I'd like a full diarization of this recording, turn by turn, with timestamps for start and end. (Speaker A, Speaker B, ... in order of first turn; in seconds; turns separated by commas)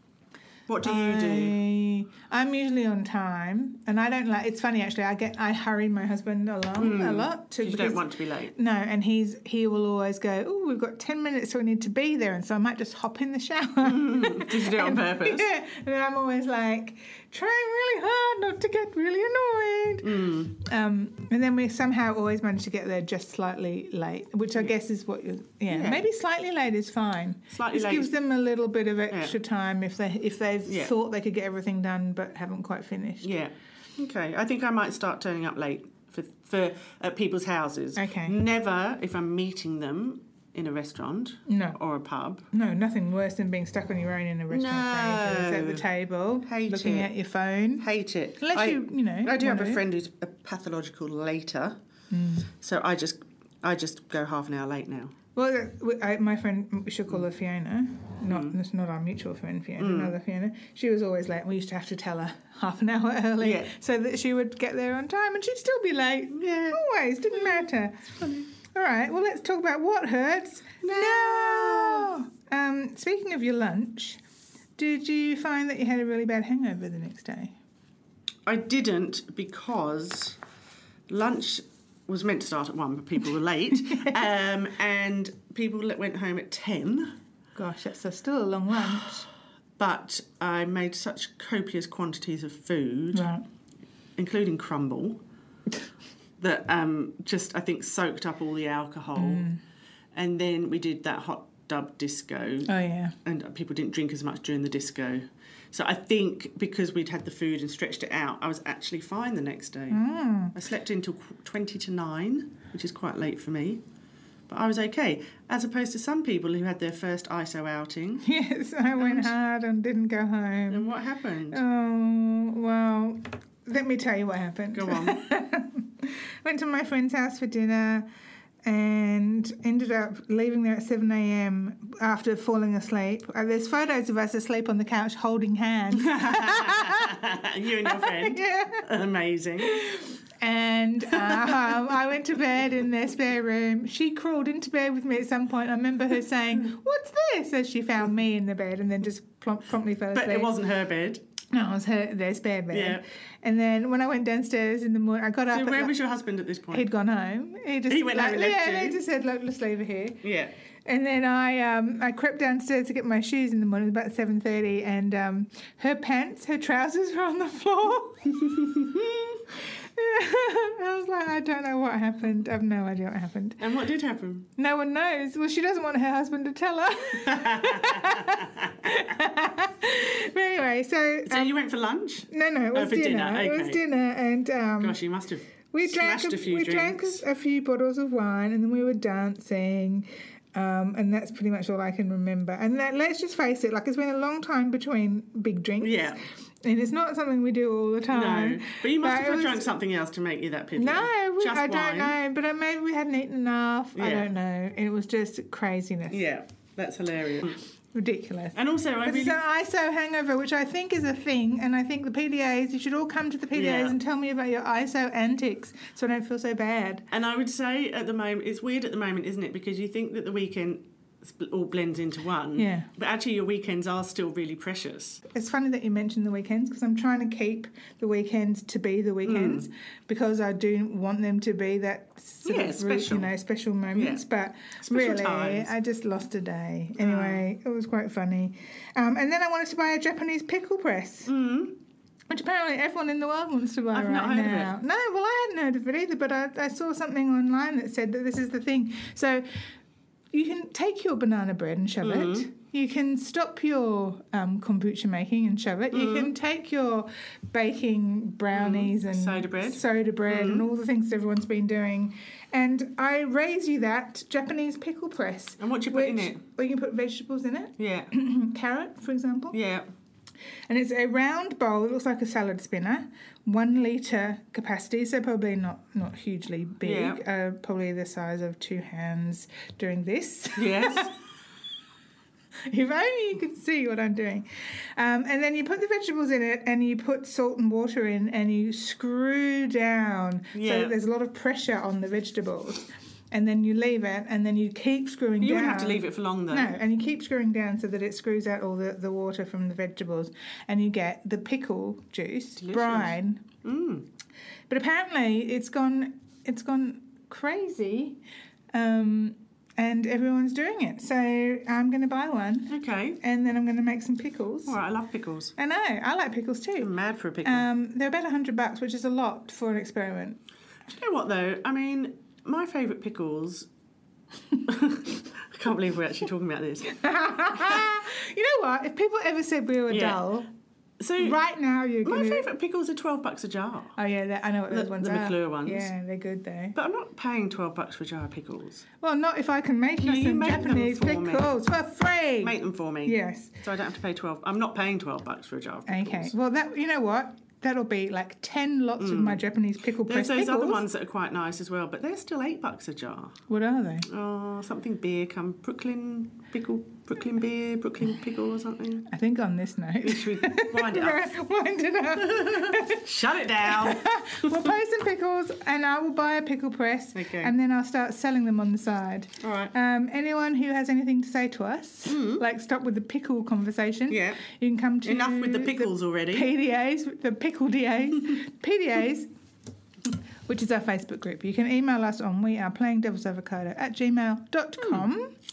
Speaker A: 0.7-1.6, Speaker B: 0.8-33.3, Speaker A: 6.8-8.5, Speaker A: 13.8-15.5, Speaker A: 20.0-20.5, Speaker A: 25.7-26.0, Speaker A: 27.5-28.1, Speaker A: 29.1-29.4, Speaker A: 30.7-30.9, Speaker A: 33.2-42.5, Speaker B: 38.0-38.4, Speaker B: 41.5-41.8, Speaker B: 42.5-47.9, Speaker A: 44.5-45.9, Speaker A: 46.5-47.1, Speaker A: 47.8-51.8, Speaker B: 48.4-49.8, Speaker B: 52.1-52.5, Speaker A: 52.5-55.1, Speaker B: 55.4-74.2, Speaker A: 58.3-58.5, Speaker A: 59.8-60.1, Speaker A: 63.4-63.7, Speaker A: 66.3-68.5, Speaker A: 70.8-72.1, Speaker B: 74.8-77.6, Speaker A: 78.5-80.4, Speaker A: 81.1-87.2, Speaker B: 83.9-84.2, Speaker B: 87.5-89.3, Speaker A: 89.8-93.3, Speaker B: 93.1-93.4, Speaker A: 94.2-95.2, Speaker A: 96.4-99.5, Speaker B: 99.2-99.6, Speaker A: 100.1-102.7, Speaker B: 102.7-103.2, Speaker A: 103.2-110.0, Speaker B: 109.9-110.5, Speaker A: 110.5-113.8, Speaker A: 114.5-118.2, Speaker B: 118.2-120.9, Speaker A: 119.0-119.3, Speaker A: 120.7-121.6, Speaker B: 121.5-128.1, Speaker A: 124.7-125.2, Speaker B: 128.7-137.2, Speaker A: 136.0-139.9, Speaker B: 137.8-138.9, Speaker B: 139.6-150.5, Speaker A: 141.1-141.9, Speaker A: 150.1-151.3, Speaker B: 151.5-155.9, Speaker A: 152.7-153.0, Speaker A: 155.5-156.9, Speaker B: 156.7-160.2, Speaker A: 157.9-159.0, Speaker A: 160.2-160.5, Speaker B: 160.9-168.9, Speaker A: 168.8-169.3, Speaker B: 169.5-173.6, Speaker A: 173.6-174.5, Speaker B: 174.6-181.6, Speaker A: 177.1-179.0, Speaker A: 181.3-183.8, Speaker B: 182.3-185.0, Speaker A: 184.8-187.2, Speaker B: 185.7-199.7, Speaker A: 195.8-196.2, Speaker A: 198.1-202.2, Speaker B: 200.8-206.2, Speaker A: 203.9-204.3, Speaker A: 206.1-207.6, Speaker B: 207.9-217.1, Speaker A: 208.6-209.4, Speaker A: 213.5-214.0, Speaker A: 217.1-225.2, Speaker B: 222.6-222.9, Speaker B: 225.3-241.3, Speaker A: 229.2-229.7, Speaker A: 232.4-233.3, Speaker A: 233.9-234.2, Speaker A: 234.8-235.7, Speaker A: 237.0-237.5, Speaker A: 241.3-241.8, Speaker B: 242.3-249.6, Speaker A: 243.9-244.8, Speaker B: 250.3-269.6, Speaker A: 252.0-252.5, Speaker A: 255.9-256.3, Speaker A: 258.5-260.6, Speaker A: 265.6-266.4, Speaker A: 267.8-268.1, Speaker A: 269.5-269.9, Speaker B: 270.7-281.1, Speaker A: 276.8-277.2, Speaker A: 280.6-281.1, Speaker B: 282.7-303.5, Speaker A: 290.5-290.9, Speaker A: 295.4-296.8, Speaker A: 302.6-304.1, Speaker B: 304.7-308.2, Speaker B: 308.7-314.8, Speaker A: 312.7-313.2, Speaker A: 314.6-315.5, Speaker B: 315.6-316.9, Speaker A: 316.8-317.7, Speaker B: 317.4-320.4, Speaker A: 320.9-323.7, Speaker A: 324.6-327.0, Speaker B: 326.9-330.5, Speaker A: 327.5-327.9, Speaker A: 329.9-330.2, Speaker A: 331.0-331.4, Speaker B: 331.2-332.5, Speaker A: 332.0-333.9, Speaker B: 334.0-336.8, Speaker A: 334.7-335.9, Speaker A: 336.8-338.9, Speaker B: 339.0-343.6, Speaker A: 340.0-341.5, Speaker A: 342.4-346.3, Speaker B: 345.9-350.9, Speaker A: 349.0-349.5, Speaker A: 350.1-353.4, Speaker B: 353.5-354.1, Speaker A: 354.1-359.1, Speaker B: 359.1-379.3, Speaker A: 360.0-361.3, Speaker A: 362.2-364.7, Speaker A: 367.1-367.5, Speaker A: 369.4-369.7, Speaker A: 372.1-372.4, Speaker A: 374.1-374.4, Speaker A: 375.0-376.5, Speaker B: 380.5-385.3